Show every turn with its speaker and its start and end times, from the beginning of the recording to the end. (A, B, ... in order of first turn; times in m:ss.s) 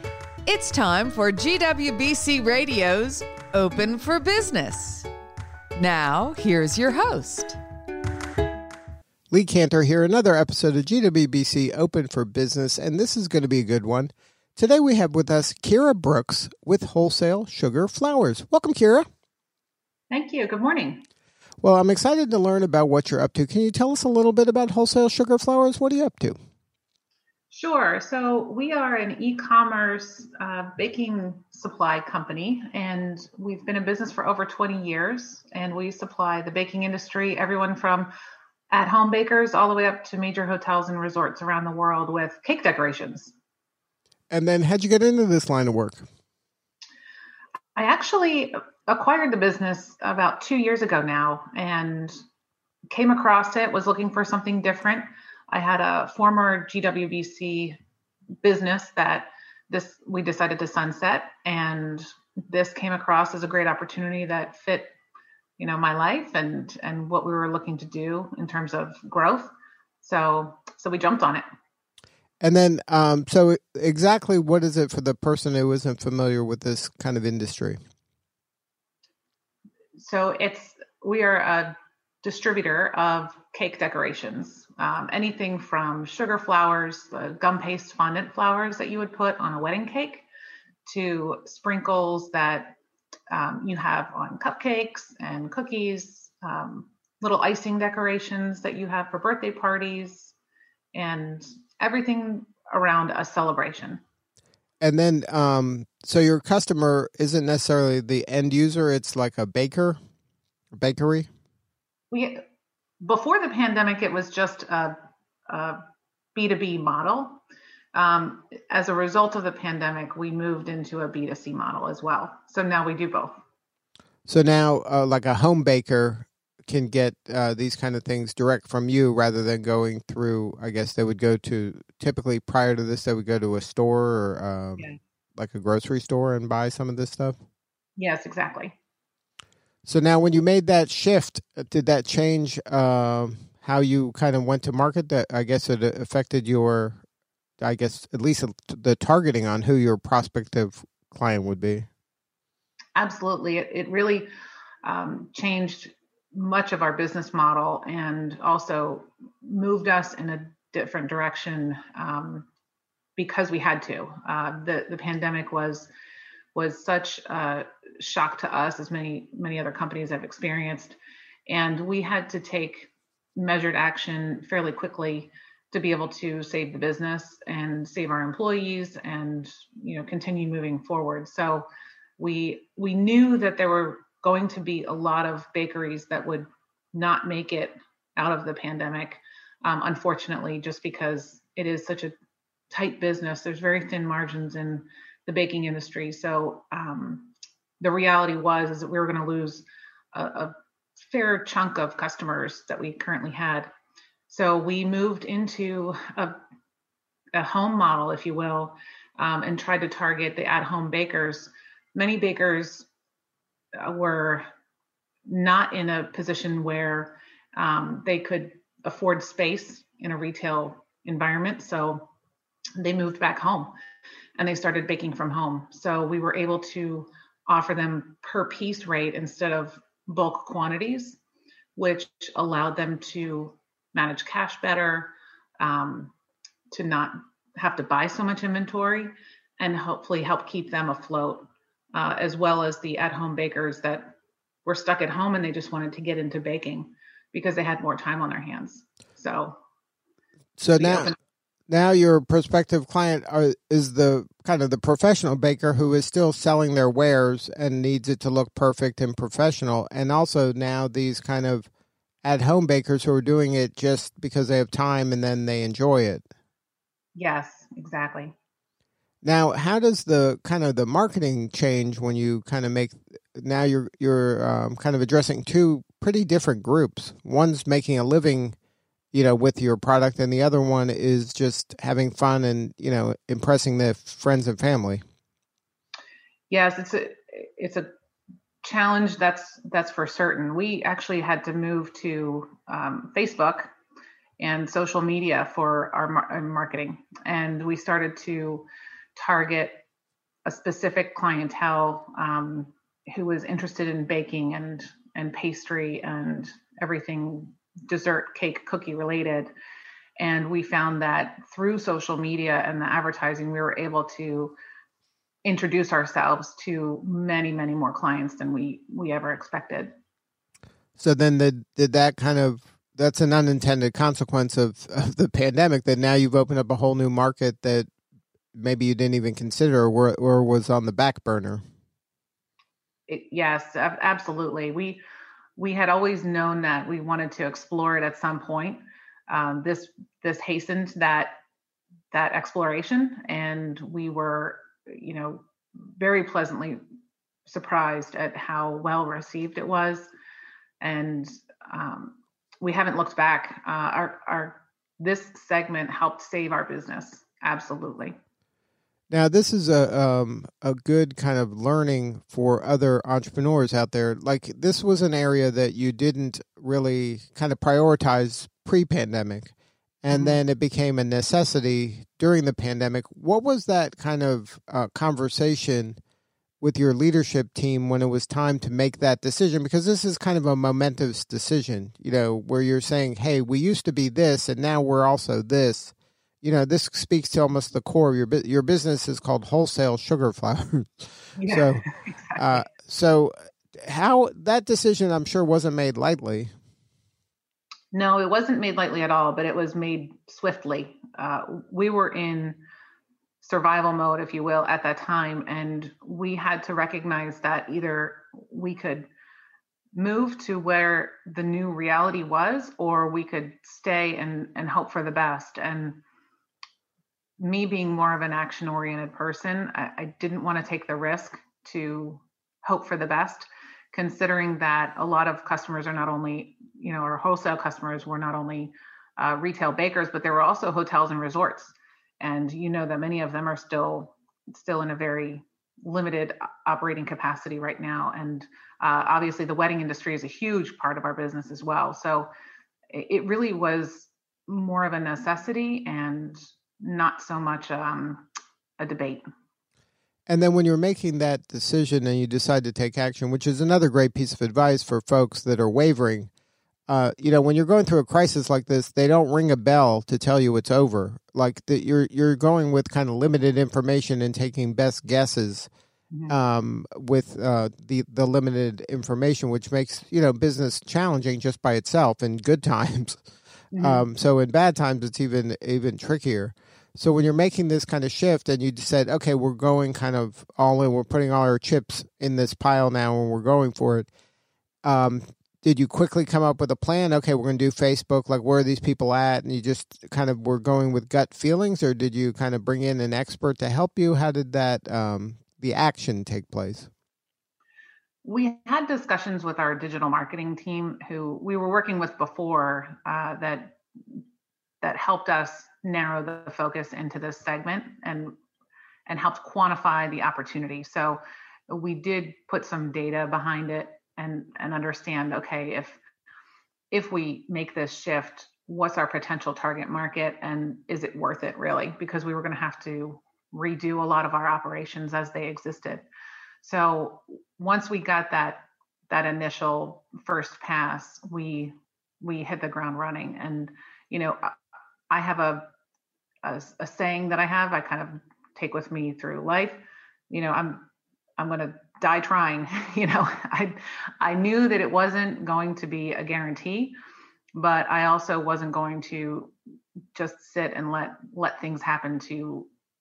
0:00.5-0:05.1 A
0:05.8-0:07.6 A
0:09.3-0:19.1 B
0:20.1-0:21.1 C
0:21.6-0:26.4 B
0:27.5-0:38.1 C
0:38.7-0:43.3 C
0:44.3-0:46.0 B
0:47.8-0:52.2 C
0:52.9-0:57.8 C
0:58.4-1:04.9 C
1:05.6-1:11.4 C
1:12.4-1:17.8 B
1:20.0-1:30.3 C
1:30.9-1:32.8 C
1:33.3-1:40.3 C
1:40.9-1:44.0 C
1:44.8-1:50.0 B
1:50.7-1:51.3 B
1:52.1-1:52.4 C
1:53.0-1:55.0 C
1:55.5-1:55.8 C
1:56.4-1:57.4 C
1:57.9-2:03.4 C
2:04.3-2:17.4 B
2:18.0-2:18.8 C
2:19.8-2:27.0 B
2:27.6-2:31.9 B
2:33.0-2:34.3 C
2:34.8-2:42.5 C
2:43.2-2:45.9 C
2:46.6-2:51.0 C
2:51.5-3:01.7 C
3:02.2-3:12.1 C
3:12.7-3:23.7 C
3:24.3-3:26.4 C
3:27.3-3:32.9 C
3:33.8-3:34.5 C
3:35.3-3:42.1 C
3:42.8-3:43.7 C
3:44.4-3:51.2 C
3:51.8-3:56.1 C
3:56.7-4:09.6 C
4:10.6-4:11.1 B
4:10.8-4:11.2 C
4:11.7-4:21.7 B
4:22.2-4:26.3 B
4:27.2-4:28.4 C
4:29.2-4:38.6 B
4:39.1-4:45.0 B
4:46.5-4:47.9 C
4:48.6-4:53.7 C
4:54.4-4:59.8 C
5:00.5-5:09.5 C
5:10.2-5:14.6 C
5:15.4-5:19.9 C
5:21.0-5:27.9 B
5:28.5-5:31.6 B
5:33.1-5:35.0 C
5:35.6-5:41.4 C
5:42.1-5:45.4 C
5:46.0-5:46.8 C
5:47.5-5:50.1 C
5:50.8-5:58.2 C
5:59.1-6:16.0 B
6:10.1-6:10.4 C
6:16.6-6:31.8 B
6:31.4-6:32.6 C
6:32.4-6:36.5 B
6:37.9-6:42.6 C
6:43.4-6:49.1 C
6:50.0-6:56.0 C
6:57.4-7:22.3 C
7:22.9-7:28.3 C
7:28.8-7:29.2 C
7:30.3-7:36.3 B
7:36.9-7:45.7 B
7:46.3-7:53.2 B
7:53.7-7:54.0 C
7:53.8-8:04.1 B
8:04.8-8:16.9 B
8:18.2-8:23.8 C
8:24.8-8:28.3 C
8:29.1-8:36.0 C
8:36.9-8:46.0 C
8:46.6-8:54.6 C
8:55.1-8:55.7 C
8:56.4-9:00.9 C
9:01.4-9:07.0 C
9:07.6-9:09.5 C
9:10.2-9:12.7 C